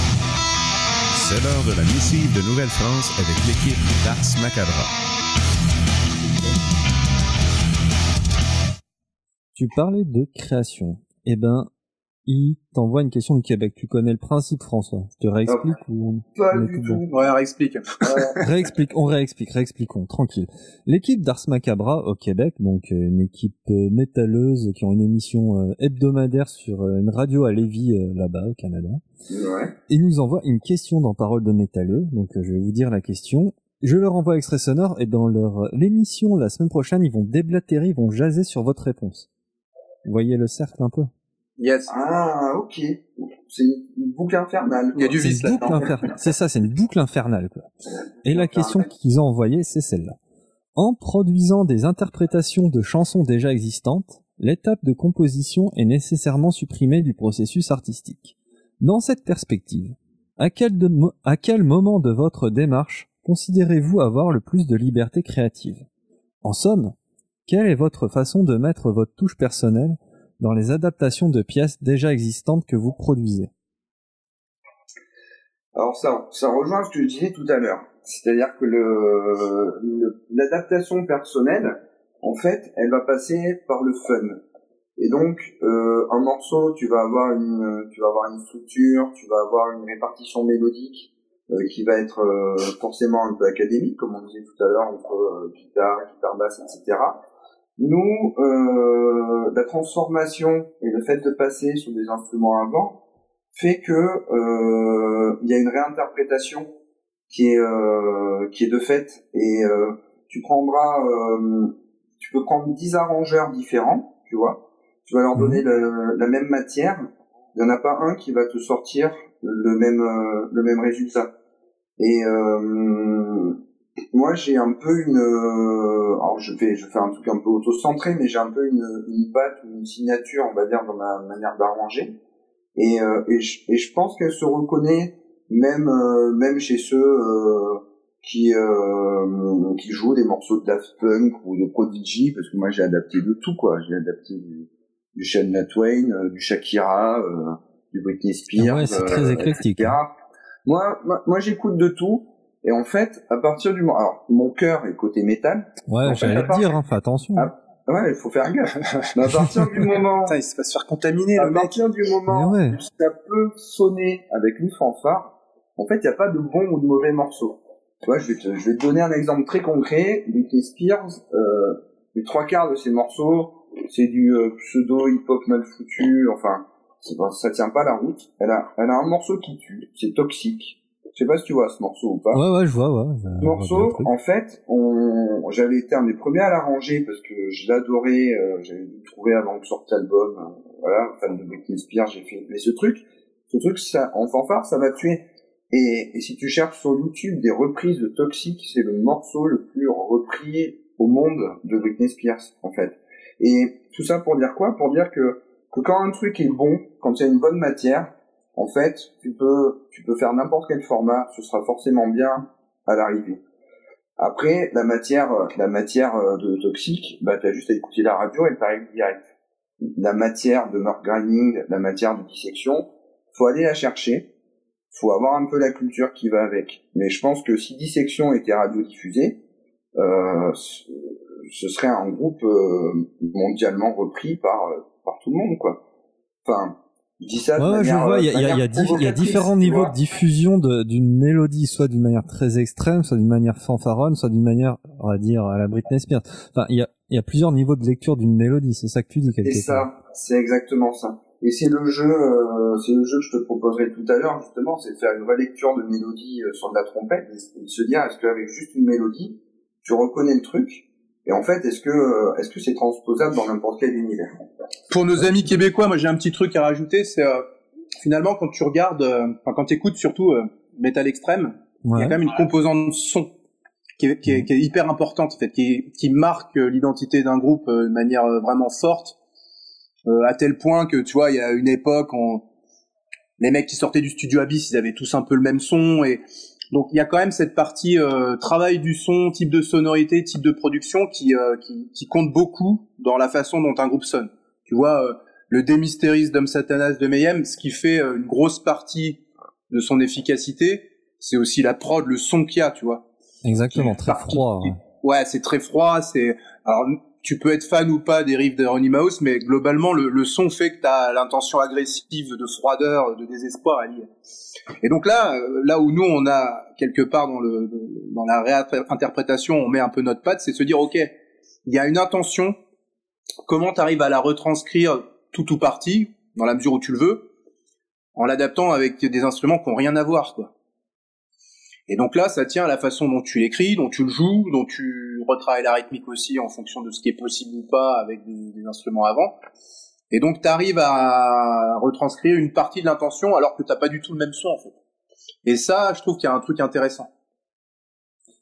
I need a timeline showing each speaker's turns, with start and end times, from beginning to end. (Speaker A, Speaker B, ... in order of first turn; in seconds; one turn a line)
Speaker A: 1.1-4.9
Speaker B: 9.6-11.7
Speaker B: 12.3-17.0
Speaker C: 15.4-15.8
Speaker C: 16.3-17.2
Speaker D: 17.1-18.2
Speaker C: 18.1-18.4
Speaker B: 18.4-29.0
Speaker C: 29.3-29.7
Speaker B: 29.9-39.3
Speaker B: 40.0-41.1
Speaker D: 41.6-42.0
Speaker C: 41.9-45.8
Speaker D: 44.9-45.7
Speaker B: 45.2-47.7
Speaker B: 48.2-50.2
Speaker C: 48.3-48.8
Speaker B: 50.7-65.8
Speaker B: 66.4-67.0
Speaker B: 67.5-73.5
Speaker C: 75.8-84.4
Speaker C: 85.0-97.2
Speaker C: 97.8-103.0
Speaker C: 103.5-106.7
Speaker C: 107.3-121.3
Speaker B: 115.3-115.6
Speaker C: 122.0-123.6
Speaker C: 124.1-132.2
Speaker C: 132.8-150.1
Speaker B: 148.6-150.0
Speaker C: 150.6-156.8
Speaker B: 155.9-157.5
Speaker C: 157.3-160.3
Speaker D: 160.2-161.8
Speaker C: 161.4-182.4
Speaker B: 162.3-162.8
Speaker B: 182.3-184.1
Speaker C: 183.4-213.4
Speaker C: 214.2-219.2
Speaker C: 220.0-224.3
Speaker C: 224.9-229.4
Speaker C: 230.0-235.8
Speaker C: 236.4-239.9
Speaker B: 237.6-249.8
Speaker C: 249.4-264.3
Speaker D: 264.9-267.4
Speaker D: 268.0-273.3
Speaker B: 271.8-272.2
Speaker D: 274.0-279.2
Speaker D: 280.1-282.4
Speaker D: 283.4-286.2
Speaker D: 286.7-303.1
Speaker B: 303.4-304.8
Speaker D: 303.7-314.1
Speaker D: 314.8-321.1
Speaker D: 321.7-322.6
Speaker D: 323.5-327.3
Speaker D: 328.2-330.5
Speaker D: 331.9-339.4
Speaker D: 340.1-344.8
Speaker D: 345.4-347.1